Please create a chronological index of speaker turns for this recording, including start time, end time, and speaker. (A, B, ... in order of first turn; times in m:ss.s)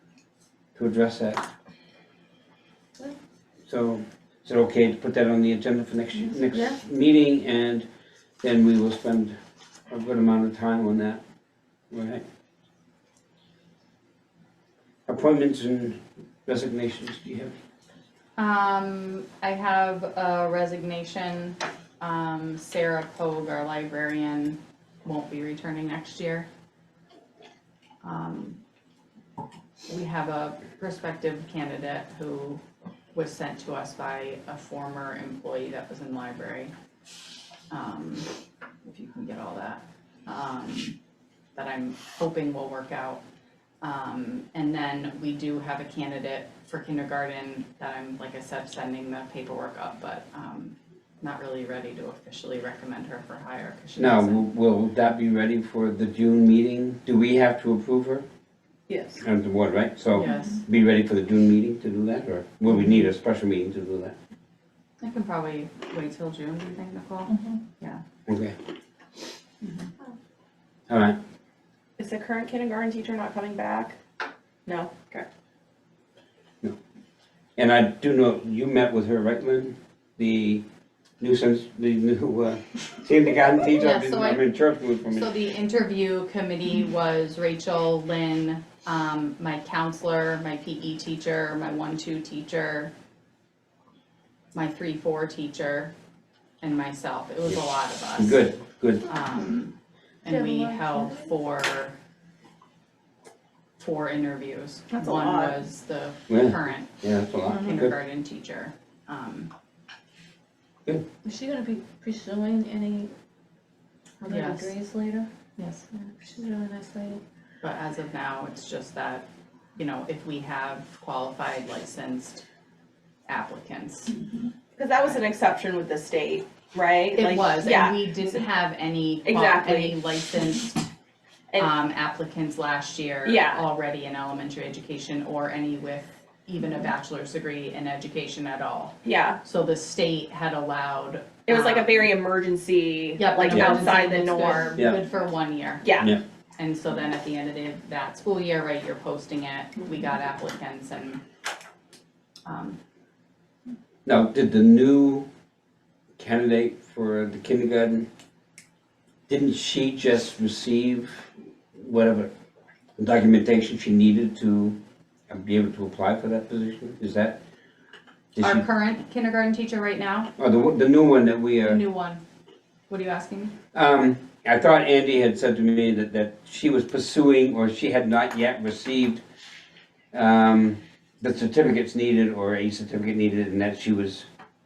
0:00.7-0:01.4 A
0:03.7-0:07.9 A
0:08.4-0:09.4 A
0:09.9-0:11.2 A
0:11.9-0:12.2 A
0:15.1-0:17.5 A
0:18.4-0:26.5 B
0:28.0-0:28.6 B
0:29.9-0:32.6 B
0:33.1-0:36.7 B
0:37.7-0:38.3 B
0:38.8-0:41.0 B
0:41.5-0:43.2 B
0:43.8-0:54.5 B
0:54.0-0:58.2 A
0:58.9-0:59.2 C
0:59.2-1:04.1 A
1:00.2-1:00.6 B
1:05.0-1:08.0 B
1:08.3-1:08.5 A
1:09.6-1:09.9 B
1:10.9-1:11.2 A
1:12.0-1:14.0 C
1:14.6-1:15.2 C
1:17.6-1:20.6 A
1:21.2-1:25.3 A
1:23.7-1:32.9 B
1:34.5-1:35.9 B
1:36.6-1:38.5 B
1:38.2-1:39.1 A
1:39.0-1:41.9 B
1:40.3-1:41.3 D
1:43.8-1:49.5 B
1:44.9-1:45.6 C
1:46.3-1:47.9 A
1:51.2-1:53.1 D
1:54.2-1:55.3 D
1:54.3-1:54.7 B
1:55.6-1:55.8 B
1:55.9-1:57.2 D
1:57.6-2:02.4 B
2:03.3-2:04.2 B
2:04.8-2:08.0 C
2:07.1-2:10.9 B
2:09.2-2:10.0 C
2:11.6-2:22.1 B
2:13.2-2:13.6 C
2:19.0-2:19.4 C
2:21.4-2:24.8 C
2:23.2-2:25.9 B
2:25.8-2:26.1 C
2:26.6-2:31.2 B
2:32.4-2:32.8 B
2:34.0-2:35.3 A
2:36.2-2:38.1 A
2:39.3-2:42.3 A
2:43.0-2:44.8 A
2:45.3-2:47.4 A
2:48.3-2:48.6 A
2:48.4-2:50.3 B
2:50.4-2:51.8 A
2:51.6-2:52.2 B
2:52.9-2:53.5 B
2:53.7-2:59.2 A
3:00.1-3:04.2 A